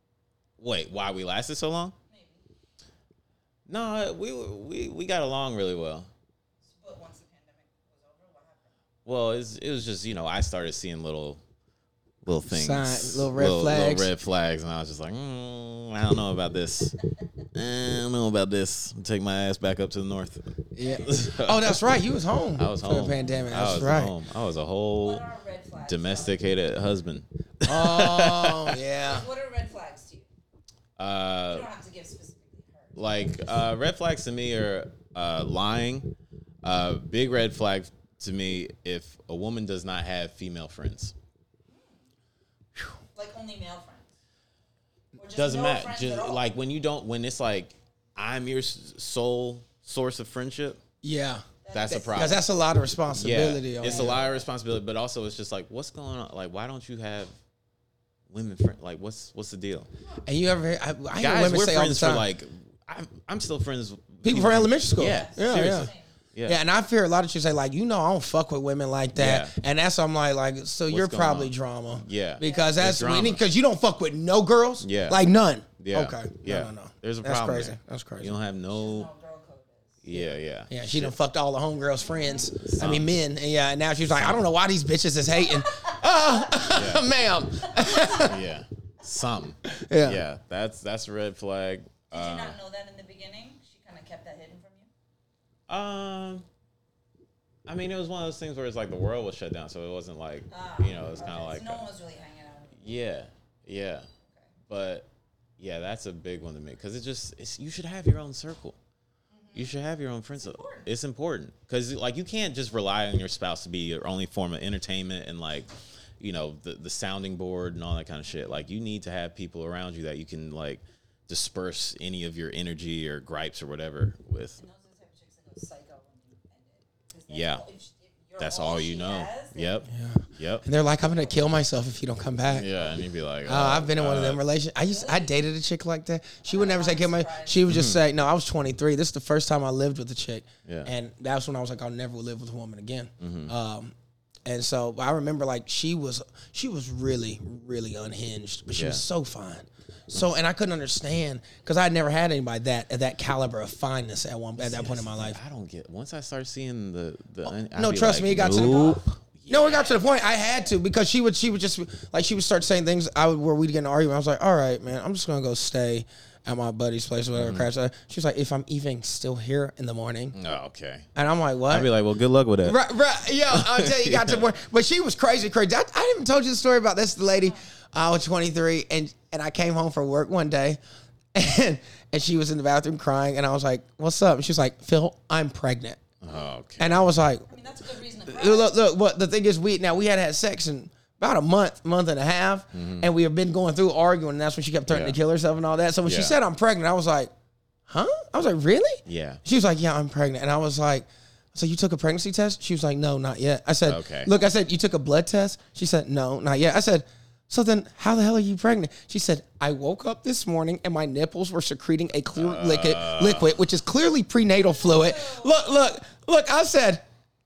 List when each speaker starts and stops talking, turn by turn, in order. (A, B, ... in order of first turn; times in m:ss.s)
0:00.6-0:01.9 A
0:02.1-0:02.4 B
0:03.7-0:06.1 A
0:06.7-0:08.7 B
0:09.0-0:11.4 A
0:12.2-0:17.0 A
0:12.5-0:14.1 C
0:17.5-0:21.8 A
0:20.8-0:24.1 C
0:20.8-0:21.1 B
0:22.6-0:25.2 A
0:25.0-0:26.3 B
0:25.8-0:28.8 A
0:27.6-0:29.2 C
0:29.0-0:30.3 B
0:31.0-0:31.7 A
0:31.5-0:33.5 B
0:33.0-0:41.1 A
0:41.7-0:42.0 B
0:43.1-0:44.1 B
0:45.2-0:46.4 B
0:45.4-0:50.8 A
0:51.0-0:51.4 C
0:51.6-0:52.4 B
0:51.7-0:52.4 A
0:52.1-0:54.2 C
0:53.1-0:57.3 A
0:53.8-0:54.4 B
0:58.3-0:59.9 A
1:00.2-1:02.2 C
1:01.2-1:06.6 A
1:04.2-1:05.9 C
1:05.0-1:06.1 B
1:06.4-1:18.4 C
1:09.1-1:09.5 A
1:10.9-1:13.4 A
1:12.4-1:12.8 B
1:14.8-1:15.2 A
1:15.8-1:19.1 A
1:18.7-1:20.0 B
1:20.0-1:21.1 A
1:20.1-1:28.4 C
1:22.0-1:22.5 B
1:22.7-1:23.1 A
1:25.5-1:26.0 B
1:26.7-1:27.1 A
1:27.8-1:28.2 B
1:28.0-1:32.6 A
1:29.7-1:30.2 C
1:32.1-1:34.9 B
1:35.7-1:36.4 A
1:37.6-1:41.8 A
1:40.5-1:42.8 B
1:42.8-1:44.1 A
1:44.7-1:45.1 A
1:45.6-1:48.8 A
1:49.3-1:49.7 B
1:49.5-2:04.6 A
1:50.4-1:50.8 B
2:04.6-2:09.7 B
2:07.3-2:07.6 A
2:08.4-2:10.6 A
2:09.9-2:12.7 C
2:12.5-2:14.4 A
2:13.4-2:23.9 C
2:14.8-2:15.3 B
2:16.4-2:17.6 B
2:17.7-2:18.0 A
2:20.6-2:20.9 A
2:23.2-2:23.5 A
2:24.4-2:35.4 C
2:28.7-2:29.0 A
2:34.6-2:39.9 A
2:37.5-2:50.4 C
2:38.5-2:39.0 B
2:47.3-2:47.7 A
2:50.3-2:51.1 A
2:51.2-2:51.9 C
2:51.7-2:52.8 A
2:52.6-3:00.8 C
2:53.5-2:54.4 A
3:01.3-3:06.0 C
3:06.2-3:07.0 A
3:06.8-3:07.5 C
3:07.5-3:08.7 B
3:08.3-3:17.3 C
3:12.7-3:13.1 A
3:14.9-3:15.2 A
3:16.0-3:16.4 A
3:17.9-3:37.0 C
3:19.1-3:19.4 A
3:23.8-3:24.3 A
3:32.3-3:33.5 A
3:34.6-3:35.6 B